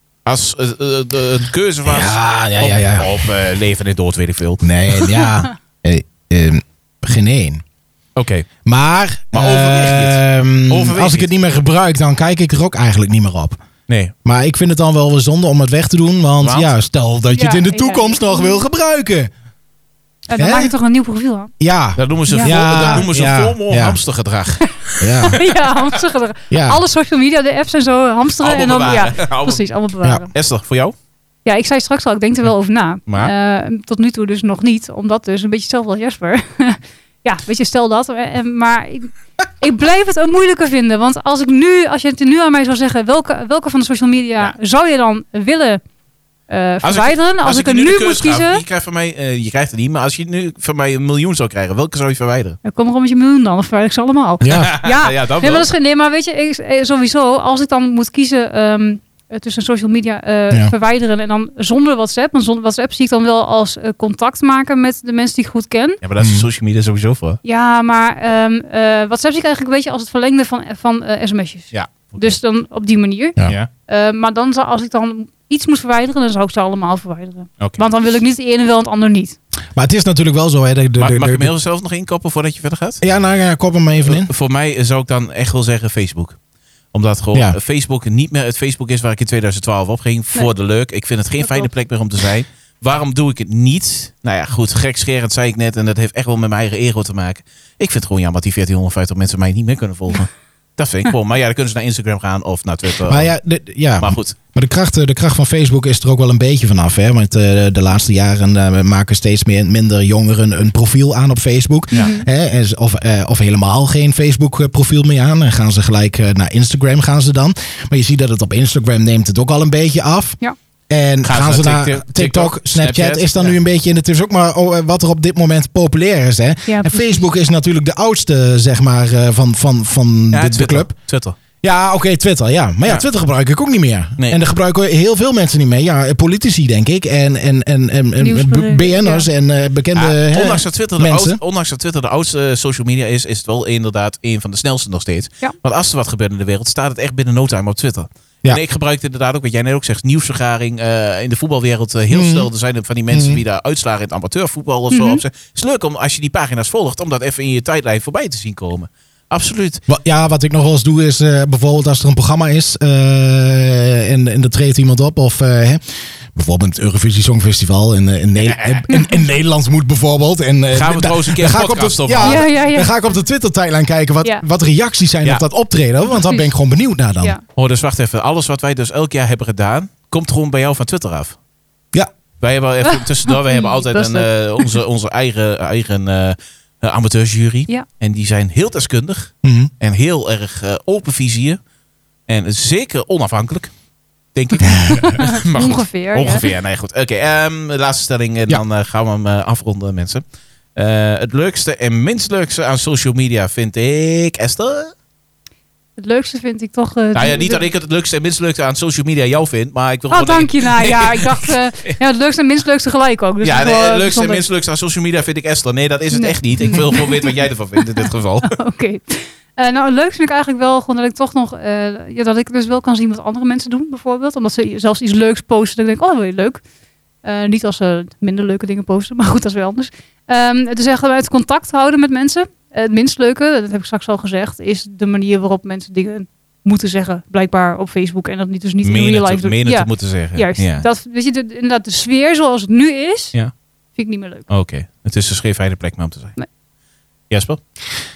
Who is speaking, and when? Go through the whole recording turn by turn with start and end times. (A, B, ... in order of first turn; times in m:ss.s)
0:00.3-0:04.6 A
0:01.8-0:03.3 B
0:04.6-0:07.6 B
0:08.2-0:08.5 A
0:08.6-0:13.6 B
0:09.3-0:11.3 A
0:13.9-0:14.1 A
0:14.2-0:19.3 B
0:16.4-0:16.7 A
0:17.3-0:18.6 C
0:20.3-0:21.5 C
0:20.4-0:20.7 B
0:21.6-0:24.0 B
0:22.0-0:25.6 A
0:22.3-0:23.0 C
0:25.0-0:25.4 B
0:25.3-0:30.3 C
0:26.5-0:26.8 B
0:28.4-0:29.6 A
0:30.3-0:30.9 A
0:31.4-0:45.8 C
0:33.1-0:33.3 A
0:46.5-0:48.6 C
0:46.8-0:52.6 A
0:52.6-1:06.0 C
0:54.4-0:54.7 B
0:54.5-0:55.7 A
1:06.0-1:07.4 A
1:06.2-1:06.5 B
1:07.4-1:13.4 C
1:11.7-1:12.3 A
1:13.9-1:19.4 C
1:19.8-1:21.5 B
1:21.0-1:23.0 A
1:23.0-1:24.3 B
1:24.0-1:26.4 A
1:26.9-1:43.3 A
1:31.4-1:31.7 C
1:43.1-2:00.4 B
1:44.0-1:44.4 A
1:51.9-1:52.3 C
2:00.9-2:10.9 B
2:01.2-2:03.6 A
2:06.7-2:07.2 C
2:10.3-2:11.4 A
2:11.6-2:21.4 B
2:18.2-2:19.3 C
2:20.0-2:39.8 A
2:32.1-2:32.5 B
2:33.1-2:33.4 B
2:34.9-2:35.2 C
2:39.9-2:45.8 B
2:46.3-2:57.4 B
2:48.4-2:48.9 A
2:50.7-2:52.4 A
2:52.2-2:53.0 C
2:56.1-2:56.5 C
2:57.6-3:01.4 A
3:02.4-3:11.6 A
3:02.8-3:04.8 C
3:09.4-3:09.7 B
3:12.3-3:13.7 A
3:14.4-3:20.2 A
3:14.7-3:16.5 C
3:20.8-3:24.9 A
3:26.0-3:27.7 C
3:27.1-3:32.0 A
3:30.1-3:34.4 C
3:33.4-3:38.6 A
3:36.1-3:46.6 C
3:47.2-4:03.4 C
3:58.8-4:00.8 A
4:04.0-4:04.5 C
4:04.5-4:06.4 A
4:07.3-4:07.6 A